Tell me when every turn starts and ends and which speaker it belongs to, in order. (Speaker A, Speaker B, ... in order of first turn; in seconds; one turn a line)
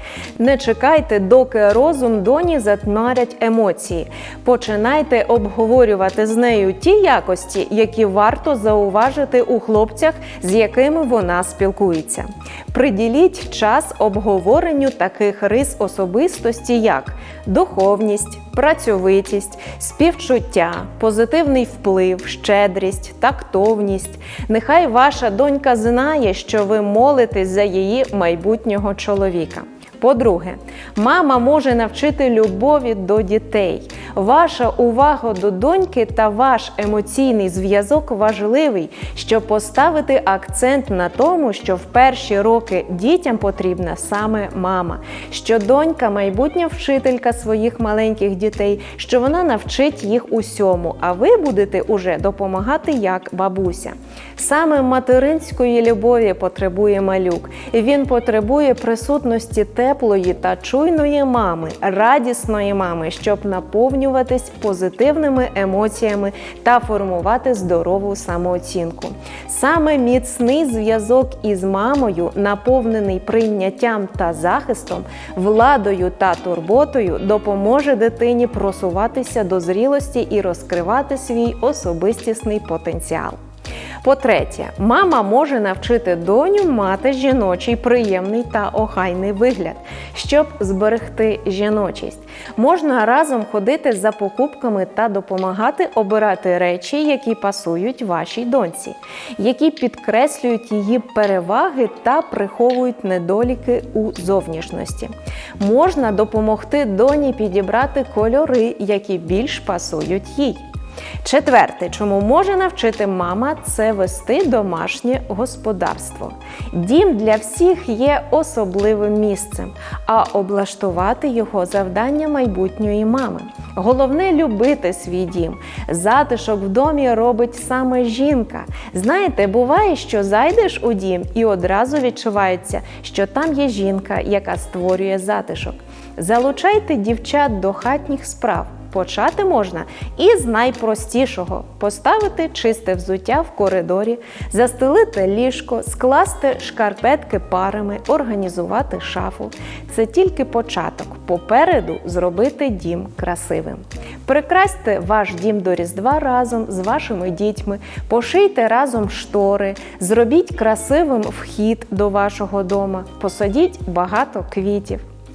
Speaker A: 0.4-83.3
Speaker A: 84.0-110.6
Speaker A: 111.2-165.0